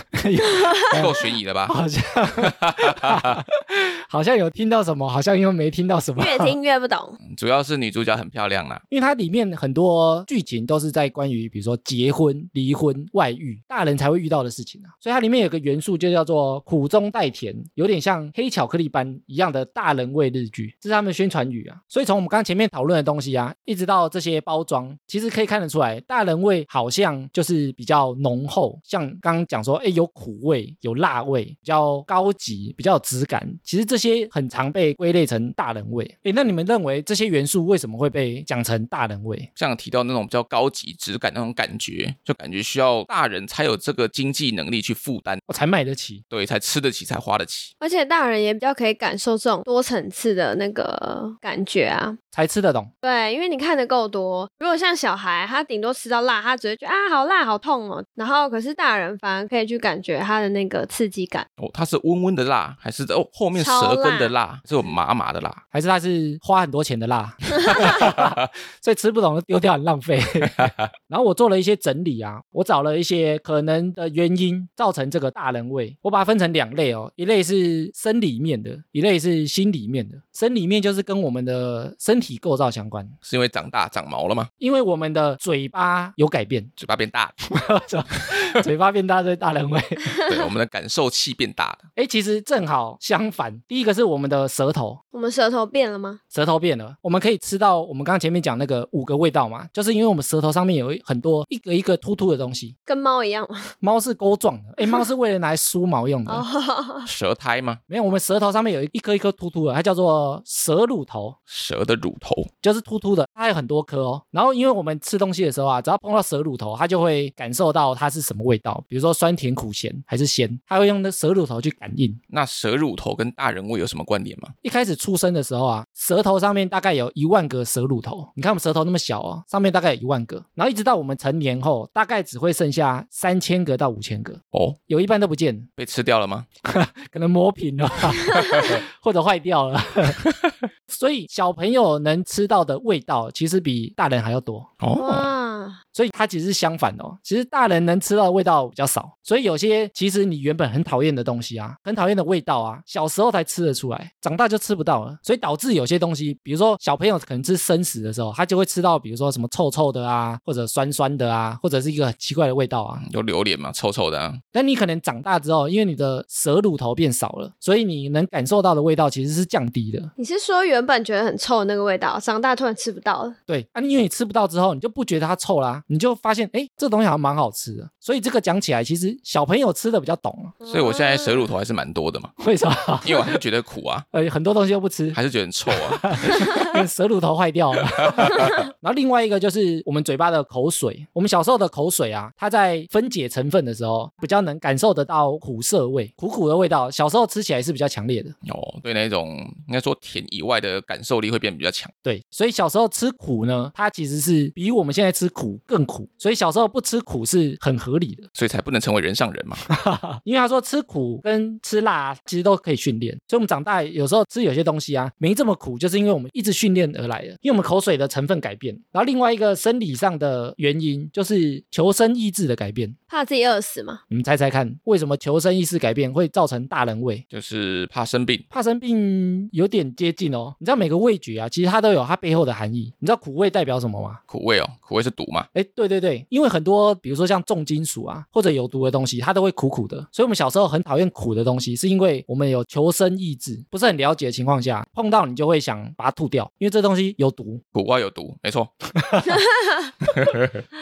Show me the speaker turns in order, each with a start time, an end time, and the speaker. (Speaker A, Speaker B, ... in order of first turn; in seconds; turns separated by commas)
Speaker A: 0.1-1.1, Speaker B: 0.9-1.8, Speaker A: 1.7-6.5, Speaker B: 2.4-3.4, Speaker C: 6.2-7.2, Speaker B: 7.2-8.8, Speaker A: 8.9-39.5, Speaker B: 39.6-45.4, Speaker A: 45.5-46.2, Speaker B: 46.3-47.7, Speaker C: 47.8-52.2, Speaker A: 52.3-52.9, Speaker C: 53.0-61.5, Speaker B: 61.6-65.6, Speaker C: 63.5-64.3, Speaker A: 65.7-83.2, Speaker B: 67.8-68.4, Speaker B: 83.2-84.5, Speaker A: 84.6-86.7, Speaker B: 86.8-87.3, Speaker A: 87.5-90.2, Speaker B: 90.3-91.9, Speaker A: 92.0-95.0, Speaker C: 95.1-96.2, Speaker A: 96.3-102.7, Speaker C: 102.9-103.7, Speaker A: 103.8-106.5, Speaker C: 106.3-107.1, Speaker B: 107.0-107.8, Speaker A: 107.9-111.4, Speaker B: 111.5-112.5, Speaker A: 112.6-122.2, Speaker B: 122.3-124.5, Speaker A: 124.6-135.7, Speaker B: 135.8-136.5, Speaker A: 136.7-140.2, Speaker A: 140.9-144.7, Speaker B: 144.8-145.3, Speaker C: 145.0-145.8, Speaker A: 145.9-163.1, Speaker B: 163.0-164.4, Speaker A: 164.5-170.1, Speaker C: 170.2-173.4, Speaker A: 173.5-180.6, Speaker C: 180.6-181.5, Speaker B: 180.7-182.3, Speaker A: 182.4-183.4, Speaker B: 183.0-184.1, Speaker A: 184.1-198.4, Speaker B: 185.1-186.6, Speaker B: 188.0-188.5, Speaker B: 198.4-201.9, Speaker A: 202.0-208.3, Speaker B: 208.3-209.6, Speaker A: 209.7-223.0, Speaker C: 223.1-224.0, Speaker A: 224.1-227.2, Speaker B: 227.3-228.4, Speaker A: 228.5-234.2, Speaker B: 234.3-235.5, Speaker A: 235.5-247.6, Speaker B: 247.8-248.7, Speaker A: 249.0-249.4, Speaker B: 250.1-250.6